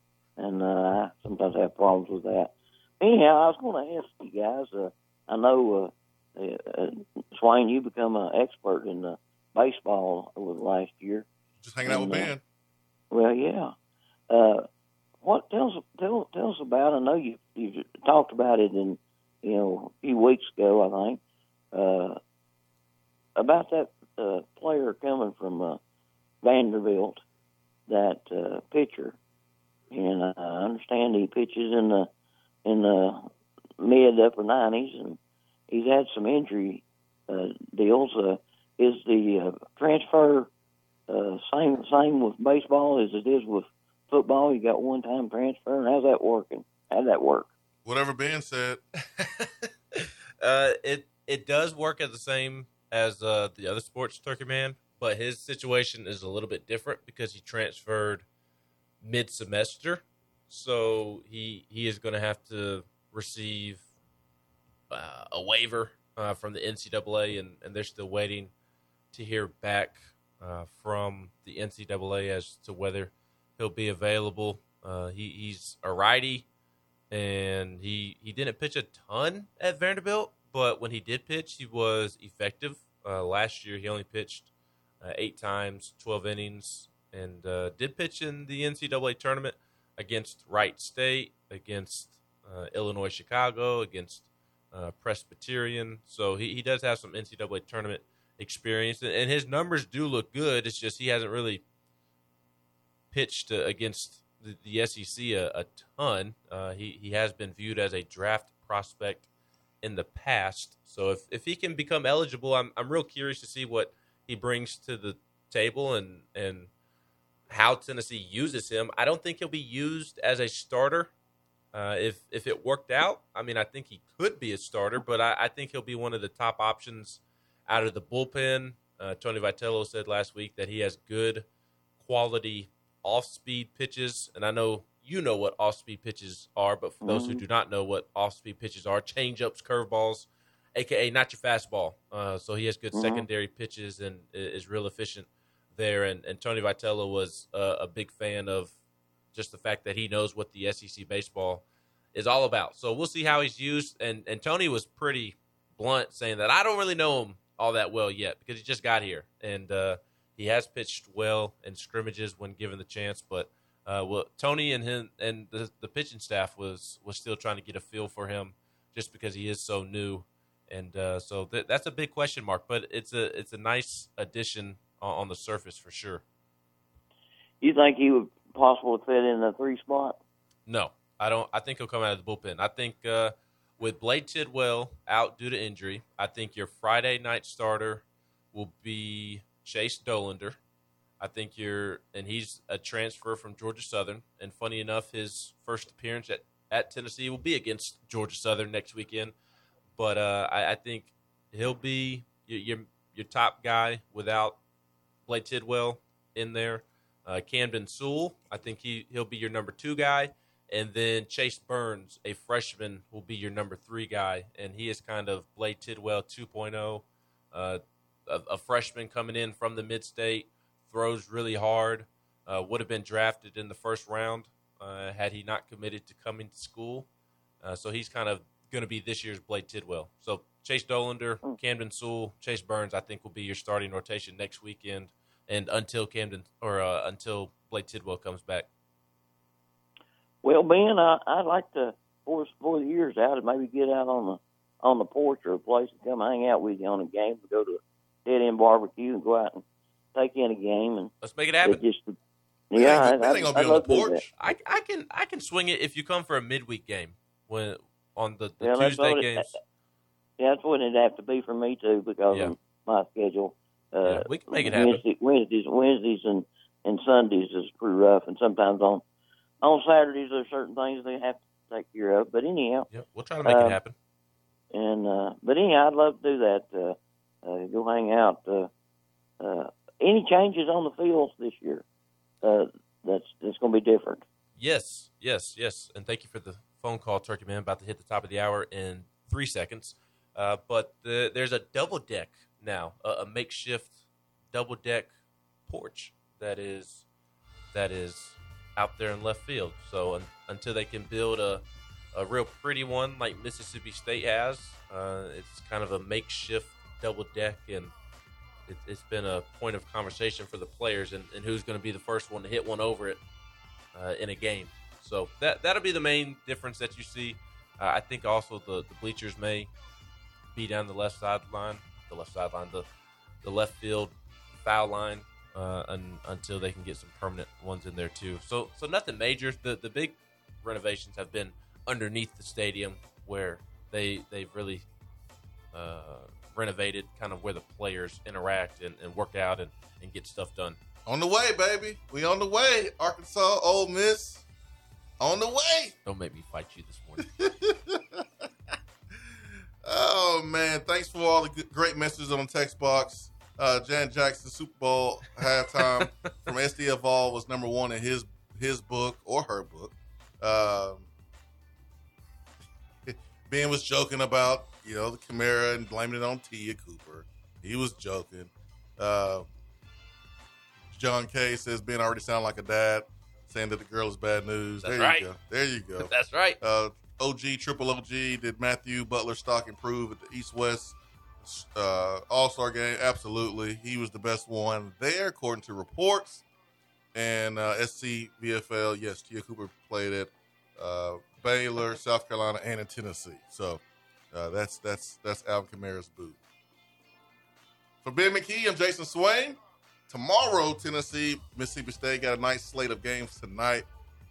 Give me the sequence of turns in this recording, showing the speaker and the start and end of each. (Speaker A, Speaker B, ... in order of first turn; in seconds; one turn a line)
Speaker A: 0.4-11.3
Speaker B: 11.6-12.4
Speaker A: 11.8-12.3
Speaker A: 13.1-13.7
Speaker A: 14.3-14.6
Speaker A: 15.2-21.2
Speaker A: 21.7-22.2
Speaker A: 23.4-25.8
Speaker A: 26.4-27.2
Speaker A: 27.9-29.2
Speaker A: 29.9-32.1
Speaker A: 32.6-33.3
Speaker A: 33.8-35.2
Speaker A: 35.7-40.5
Speaker A: 41.1-47.5
Speaker B: 47.8-48.8
Speaker C: 50.4-58.2
Speaker C: 59.0-63.8
Speaker C: 64.9-68.5
Speaker C: 69.1-76.5
Speaker C: 77.1-84.5
Speaker C: 85.0-101.6
Speaker C: 103.1-109.3
Speaker C: 109.8-116.7
Speaker C: 117.5-121.1
Speaker C: 121.7-131.4
Speaker C: 132.0-148.7
Speaker A: 137.0-137.4
Speaker A: 142.9-143.2
Speaker C: 149.3-176.2
Speaker A: 177.6-180.2
Speaker C: 180.7-190.6
Speaker C: 191.2-199.3
Speaker C: 199.9-204.6
Speaker C: 205.3-227.1
Speaker C: 227.6-238.7
Speaker A: 240.4-249.6
Speaker A: 250.1-251.1
Speaker C: 251.2-251.8
Speaker A: 251.6-252.1
Speaker A: 252.7-254.2
Speaker B: 252.7-254.3
Speaker C: 254.4-259.5
Speaker A: 258.6-259.5
Speaker A: 260.4-269.0
Speaker C: 264.0-265.0
Speaker A: 269.6-272.9
Speaker C: 272.9-273.9
Speaker A: 273.4-273.8
Speaker A: 274.7-278.7
Speaker A: 279.4-281.8
Speaker A: 282.4-284.2
Speaker C: 284.6-294.0
Speaker C: 294.5-295.1
Speaker C: 295.7-297.0
Speaker C: 297.7-307.9
Speaker C: 308.6-313.2
Speaker C: 313.9-319.7
Speaker C: 320.5-322.9
Speaker C: 323.4-334.9
Speaker C: 335.7-340.8
Speaker B: 341.1-344.4
Speaker B: 345.2-345.9
Speaker C: 346.0-347.3
Speaker B: 347.2-348.2
Speaker B: 349.2-361.1
Speaker C: 355.8-356.3
Speaker B: 363.1-369.4
Speaker B: 370.9-386.4
Speaker C: 374.8-375.3
Speaker C: 376.0-376.6
Speaker B: 387.1-396.4
Speaker B: 398.0-403.9